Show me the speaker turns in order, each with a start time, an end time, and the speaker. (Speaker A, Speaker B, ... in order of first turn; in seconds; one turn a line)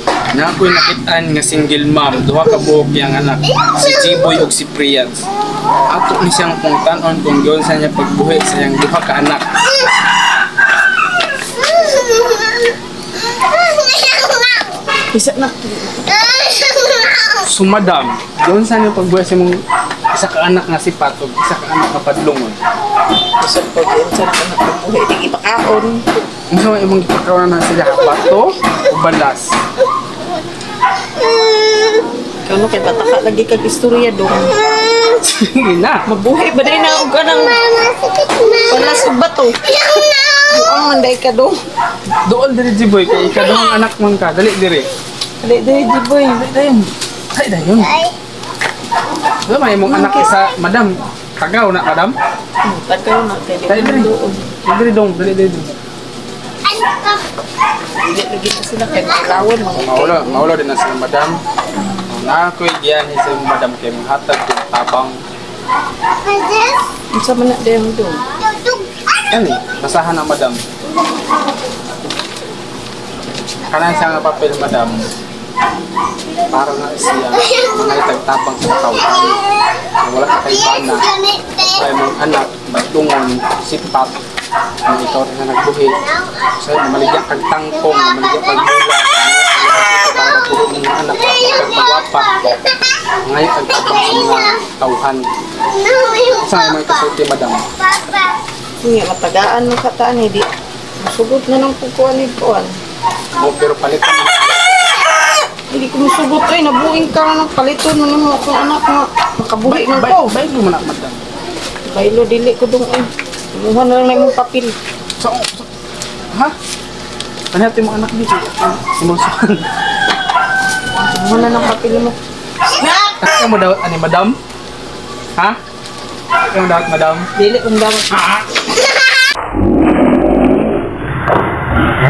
Speaker A: 0.3-5.3
Speaker A: 5.9-9.5
Speaker B: 15.1-16.6
Speaker A: 17.4-22.6
Speaker B: 23.4-26.0
Speaker A: 26.5-29.5
Speaker B: 32.4-34.6
Speaker A: 35.1-36.0
Speaker B: 36.1-37.6
Speaker B: 38.3-39.8
Speaker B: 40.4-41.6
Speaker A: 42.2-44.9
Speaker B: 45.4-46.6
Speaker A: 46.4-48.0
Speaker A: 49.5-52.1
Speaker B: 49.9-50.3
Speaker B: 52.6-54.5
Speaker A: 53.7-54.1
Speaker A: 54.6-55.8
Speaker B: 58.0-60.5
Speaker A: 59.7-61.4
Speaker A: 62.1-65.2
Speaker B: 67.1-68.4
Speaker A: 69.3-70.6
Speaker A: 73.7-75.1
Speaker A: 76.5-79.4
Speaker A: 80.0-84.2
Speaker A: 84.8-92.3
Speaker A: 93.2-95.3
Speaker A: 96.2-97.7
Speaker B: 98.8-100.5
Speaker B: 101.0-102.7
Speaker A: 103.3-104.8
Speaker B: 105.7-110.3
Speaker A: 109.6-111.2
Speaker B: 111.9-114.7
Speaker A: 115.2-115.7
Speaker A: 117.5-119.8
Speaker B: 121.0-122.2
Speaker A: 123.0-124.3
Speaker A: 126.5-127.3
Speaker B: 127.3-128.2
Speaker A: 128.1-128.4